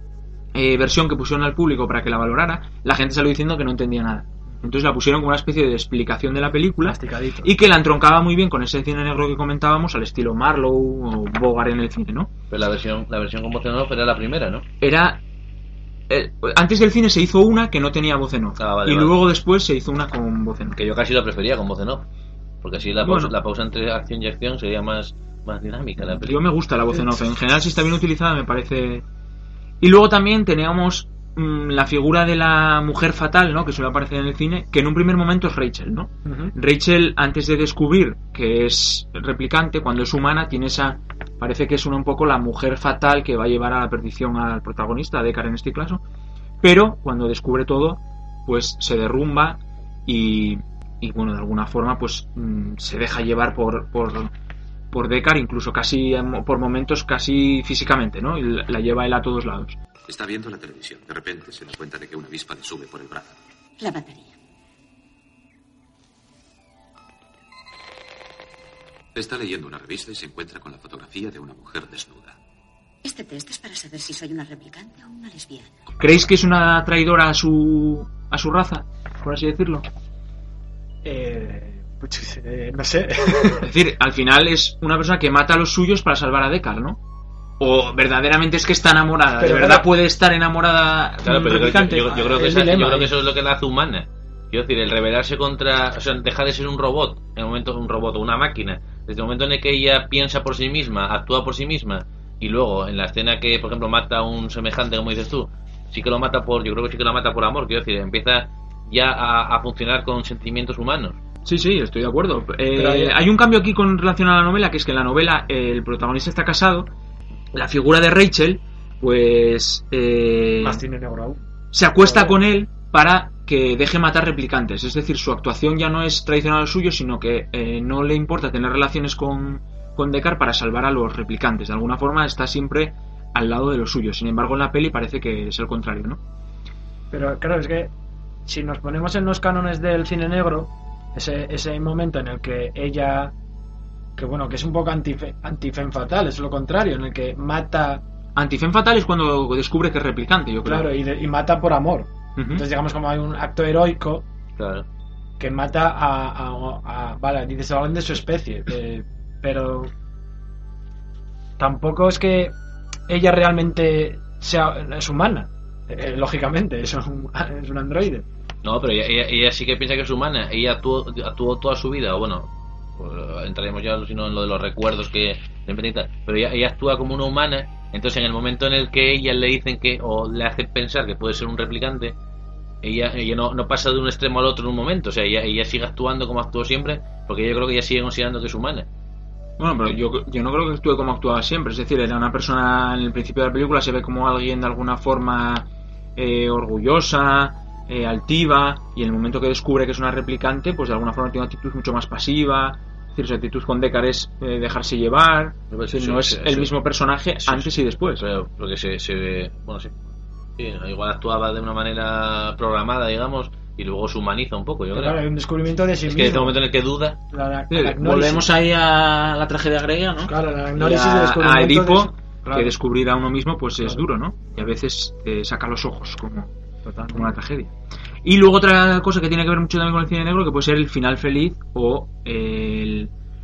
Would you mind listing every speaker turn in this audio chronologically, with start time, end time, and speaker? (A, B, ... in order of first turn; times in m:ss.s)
0:00.5-0:12.3 A
0:06.8-0:07.5 B
0:12.5-0:14.6 C
0:14.8-0:15.2 A
0:16.1-0:20.8 A
0:18.6-0:19.2 C
0:20.8-0:22.1 C
0:22.6-0:26.4 C
0:23.0-0:23.3 A
0:26.2-0:29.0 A
0:29.8-0:46.0 A
0:36.2-0:36.5 B
0:46.6-0:54.3 A
0:54.9-0:59.8 A
1:00.1-1:03.3 D
1:03.8-1:04.4 E
1:09.1-1:12.4 D
1:13.0-1:15.7 E
1:16.0-1:19.8 A
1:21.0-1:23.6 B
1:23.6-1:27.0 A
1:27.6-1:32.1 A
1:29.4-1:29.9 B
1:31.2-1:51.2 C
1:31.3-1:33.1 B
1:51.4-1:56.9 A
1:52.8-1:53.2 B
1:57.5-2:00.8 A
2:00.6-2:01.4 B
2:01.7-2:16.2 A
2:02.0-2:02.4 B
2:17.1-2:17.9 B
2:18.4-2:23.3 B
2:24.2-2:28.0 B
2:28.4-2:30.9 A
2:30.6-2:34.2 B
2:32.4-2:32.6 A
2:34.6-2:34.8 C
2:35.4-2:39.9 B
2:41.6-2:42.5 B
2:43.1-2:48.2 B
2:48.6-3:02.1 C
3:02.8-3:08.9 C
3:09.6-3:28.2 A
3:25.7-3:26.7 C
3:27.4-3:30.0 C
3:30.6-3:35.2 C
3:34.9-3:36.6 B
3:36.1-3:37.2 C
3:37.3-3:38.5 B
3:37.7-3:46.5 A
3:40.3-3:42.7 B
3:46.8-3:47.4 B
3:47.1-3:47.7 A
3:48.2-3:53.1 A